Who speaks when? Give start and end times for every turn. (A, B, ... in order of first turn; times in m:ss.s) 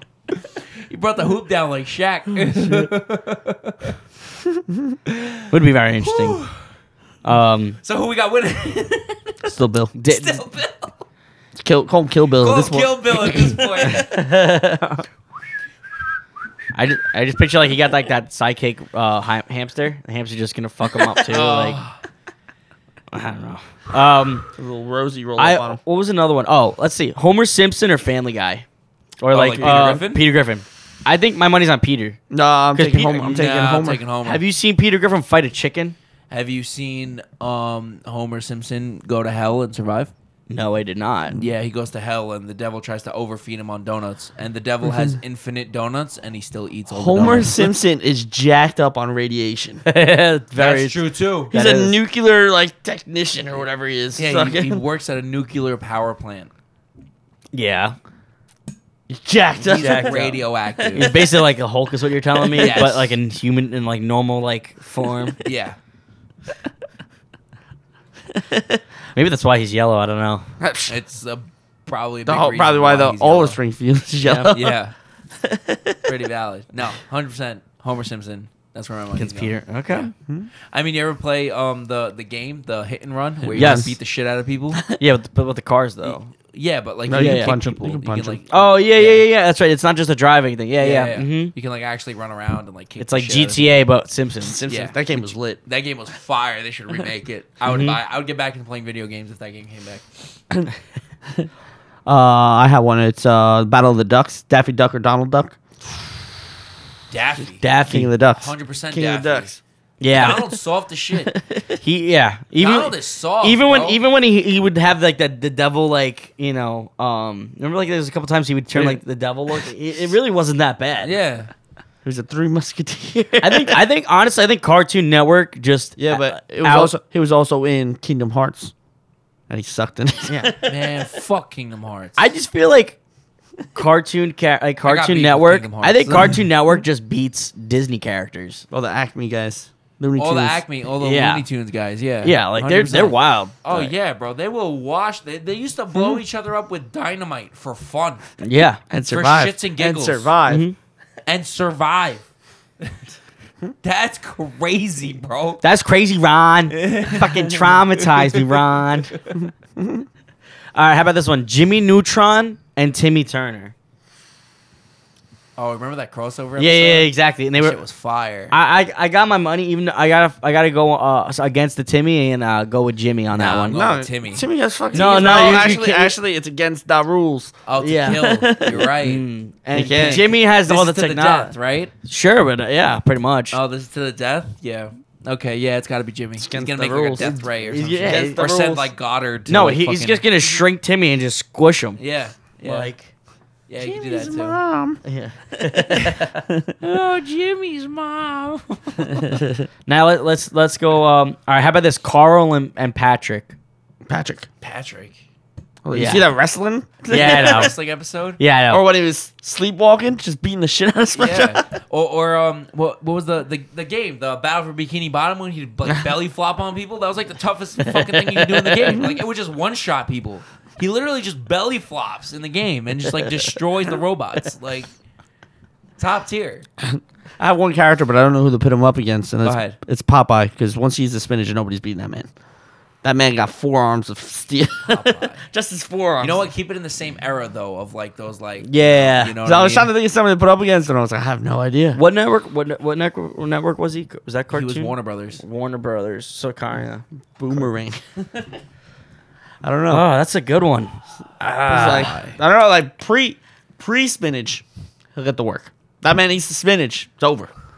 0:00.9-0:03.9 A
0:05.1-0:05.4 A
0:05.5-0:06.4 B
0:06.0-0:06.5 A
0:07.2-0:07.8 B
0:07.8-0:09.4 A
0:09.4-0:09.9 C
0:10.0-0:10.4 B
0:10.1-0:10.9 A
0:11.6-0:13.6 C
0:12.4-0:14.2 A
0:13.9-0:15.0 B
0:16.7-0:21.8 B
0:21.2-0:22.0 A
0:23.1-0:24.5 B
0:24.6-0:25.8 C
0:25.4-0:28.6 B
0:29.2-0:32.2 B
0:29.3-0:30.2 A
0:29.6-0:30.0 C
0:32.3-0:34.0 C
0:32.8-0:33.2 B
0:33.0-0:34.4 A
0:34.2-0:36.0 B
0:36.3-0:40.1 A
0:40.5-0:41.4 B
0:41.3-0:47.6 A
0:46.9-0:49.8 C
0:49.8-0:52.0 B
0:50.6-0:51.5 A
0:51.5-0:54.8 C
0:54.2-0:56.5 A
0:57.5-0:58.0 B
0:59.1-1:00.3 C
0:59.6-1:00.4 B
0:59.6-1:01.2 A
1:00.9-1:05.4 B
1:02.5-1:03.1 A
1:05.4-1:05.8 A
1:08.5-1:10.4 B
1:10.6-1:11.0 C
1:10.9-1:13.6 A
1:12.2-1:14.8 C
1:14.2-1:14.9 A
1:16.0-1:20.1 A
1:19.1-1:20.1 B
1:20.7-1:24.8 A
1:23.4-1:23.9 C
1:23.5-1:23.9 B
1:24.9-1:26.3 B
1:26.0-1:29.2 A
1:27.1-1:28.4 C
1:27.1-1:27.5 B
1:28.5-1:31.5 B
1:30.8-1:33.8 A
1:33.0-1:34.6 B
1:34.4-1:35.6 C
1:34.7-1:40.0 A
1:37.6-1:38.0 B
1:42.0-1:45.6 C
1:47.1-1:47.7 A
1:47.6-1:48.1 B
1:47.8-1:49.6 C
1:48.3-1:49.6 A
1:50.0-1:50.5 B
1:50.1-1:51.4 A
1:51.3-2:01.1 B
1:52.6-1:54.0 A
2:01.0-2:01.5 A
2:02.0-2:03.8 C
2:03.4-2:06.9 B
2:06.0-2:08.7 C
2:09.5-2:10.6 C
2:10.3-2:10.6 B
2:10.6-2:12.3 A
2:12.2-2:13.0 B
2:13.7-2:18.6 B
2:14.8-2:16.4 A
2:18.7-2:20.6 C
2:20.2-2:28.2 A
2:21.0-2:21.4 B
2:22.2-2:23.9 B
2:28.4-2:28.8 B
2:28.9-2:30.6 C
2:29.1-2:30.3 A
2:30.4-2:30.8 B
2:31.2-2:32.2 A
2:33.8-2:35.6 A
2:35.6-2:39.1 B
2:36.7-2:38.6 A
2:37.2-2:37.6 C
2:39.4-2:40.0 C
2:40.7-2:43.7 B
2:45.6-2:48.5 A
2:46.6-2:47.8 B
2:48.5-2:53.8 B
2:53.3-2:56.0 A
2:53.7-2:57.5 C
2:54.9-2:56.1 B
2:57.6-2:59.2 A
2:57.8-3:01.5 B
2:59.7-3:00.2 C
2:59.9-3:01.9 A
3:02.0-3:03.6 B
3:03.5-3:10.2 A
3:06.4-3:07.4 C
3:07.2-3:08.5 B
3:08.0-3:08.9 C
3:09.5-3:12.0 B
3:12.0-3:12.9 A
3:12.6-3:13.1 B
3:13.7-3:14.6 A
3:13.8-3:15.0 C
3:15.0-3:16.3 B
3:15.9-3:16.2 A
3:16.8-3:19.4 A
3:19.2-3:19.5 C
3:19.9-3:23.5 B
3:24.1-3:24.5 C
3:24.6-3:25.2 A
3:25.8-3:27.7 C
3:25.9-3:26.3 B
3:27.1-3:27.7 B
3:27.1-3:28.4 A
3:28.4-3:28.8 B
3:28.7-3:31.6 C
3:31.2-3:44.9 A
3:37.8-3:39.0 B
3:46.0-3:46.6 A
3:46.8-3:52.3 C
3:49.4-3:49.8 A
3:53.0-3:56.5 C
3:54.8-3:55.4 A
3:56.2-3:59.9 A
3:58.6-3:59.4 B
3:59.4-4:02.0 C
4:01.9-4:07.0 B
4:04.5-4:05.4 A
4:07.4-4:08.0 C
4:09.6-4:10.0 C
4:09.9-4:12.2 B
4:11.7-4:14.6 C
4:11.8-4:12.4 A
4:15.1-4:17.5 C